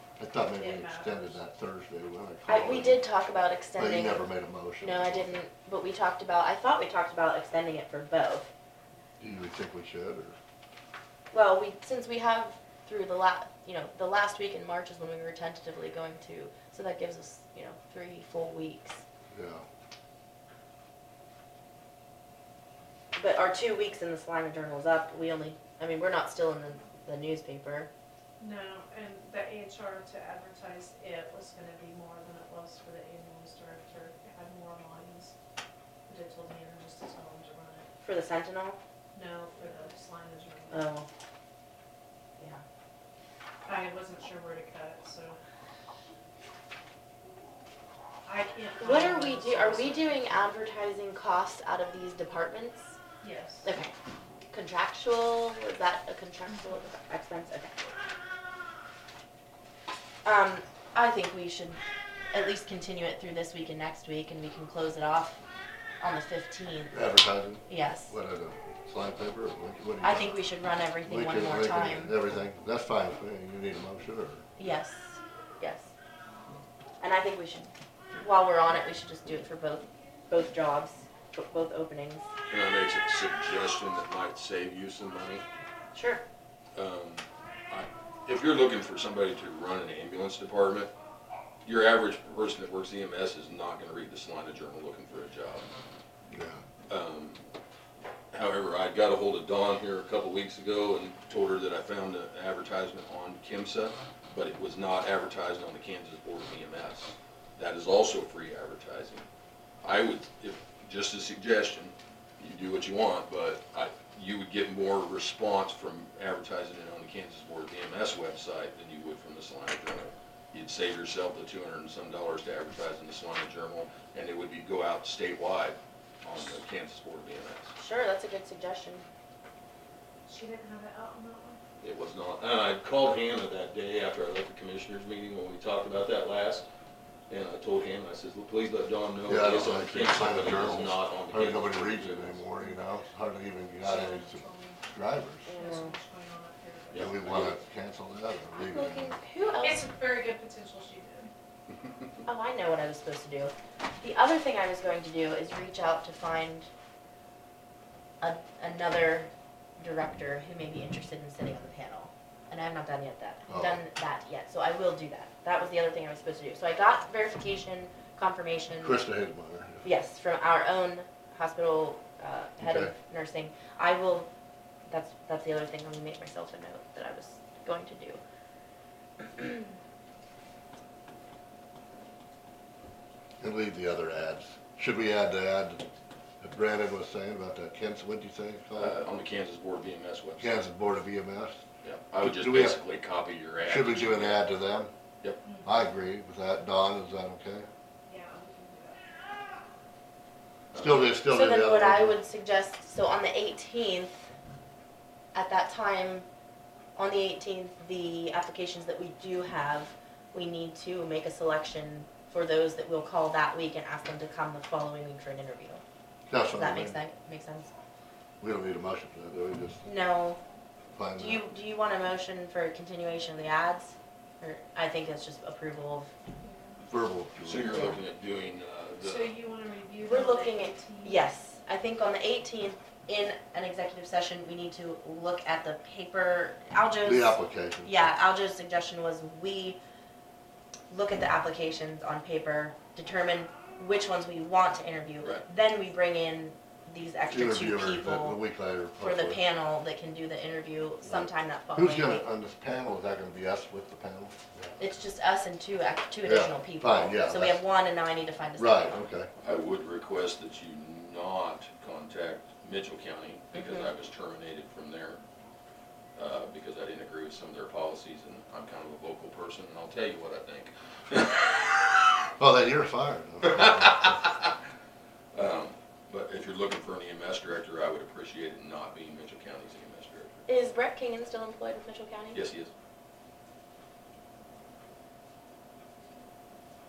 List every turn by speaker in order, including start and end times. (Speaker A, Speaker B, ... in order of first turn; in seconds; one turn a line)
Speaker A: 0.2-3.0
Speaker B: 0.5-1.4
Speaker C: 2.5-4.3
Speaker A: 3.8-5.4
Speaker C: 4.8-8.5
Speaker A: 9.2-10.4
Speaker C: 11.3-19.0
Speaker A: 19.3-19.6
Speaker C: 23.1-27.9
Speaker B: 28.4-35.4
Speaker B: 36.1-37.9
Speaker C: 38.0-38.8
Speaker B: 39.1-40.9
Speaker C: 40.7-41.1
Speaker B: 43.7-45.4
Speaker B: 48.2-50.3
Speaker C: 48.8-53.0
Speaker B: 53.2-53.7
Speaker C: 53.6-53.9
Speaker C: 54.5-57.9
Speaker C: 60.2-61.8
Speaker C: 62.3-65.4
Speaker C: 66.0-67.0
Speaker A: 66.9-70.3
Speaker C: 67.7-68.1
Speaker C: 70.0-72.2
Speaker A: 71.1-74.5
Speaker C: 74.6-75.9
Speaker C: 77.0-82.3
Speaker D: 82.5-85.4
Speaker C: 85.9-86.2
Speaker D: 86.8-90.9
Speaker D: 91.7-95.7
Speaker A: 96.3-96.6
Speaker D: 96.9-97.4
Speaker D: 98.3-109.2
Speaker D: 109.8-127.7
Speaker C: 127.8-129.1
Speaker B: 130.3-131.6
Speaker D: 131.8-136.7
Speaker D: 137.3-142.4
Speaker A: 139.2-145.5
Speaker B: 143.8-144.8
Speaker C: 145.5-146.0
Speaker B: 145.6-147.5
Speaker D: 146.9-147.6
Speaker A: 146.9-149.2
Speaker C: 148.6-149.9
Speaker B: 149.5-151.3
Speaker C: 152.2-156.7
Speaker C: 158.2-169.0
Speaker A: 163.5-163.8
Speaker A: 168.8-169.8
Speaker C: 169.8-174.3
Speaker A: 172.6-172.9
Speaker C: 174.9-178.2
Speaker C: 179.4-179.6
Speaker A: 183.4-185.8
Speaker A: 186.4-189.0
Speaker D: 188.8-190.5
Speaker A: 190.4-191.6
Speaker D: 191.8-194.5
Speaker A: 192.2-192.8
Speaker A: 193.6-194.9
Speaker B: 195.4-195.7
Speaker A: 195.6-197.7
Speaker B: 198.1-199.1
Speaker D: 200.7-201.1
Speaker A: 200.7-202.2
Speaker C: 201.3-204.3
Speaker C: 205.3-206.3
Speaker C: 207.0-215.8
Speaker A: 216.3-217.0
Speaker C: 216.5-217.7
Speaker A: 218.4-219.9
Speaker C: 219.8-220.4
Speaker A: 220.9-221.4
Speaker C: 221.2-226.1
Speaker B: 226.4-226.8
Speaker A: 226.9-228.0
Speaker D: 227.4-229.3
Speaker B: 229.0-231.3
Speaker C: 230.0-239.8
Speaker A: 237.0-238.1
Speaker C: 240.9-248.4
Speaker A: 247.3-249.4
Speaker C: 249.0-252.2
Speaker A: 251.0-254.8
Speaker C: 254.8-259.0
Speaker A: 256.2-257.6
Speaker A: 258.6-259.3
Speaker D: 259.4-265.2
Speaker C: 263.5-263.9
Speaker D: 266.2-272.1
Speaker A: 272.4-274.1
Speaker D: 273.4-274.6
Speaker D: 275.3-280.4
Speaker C: 280.5-282.4
Speaker D: 282.3-282.7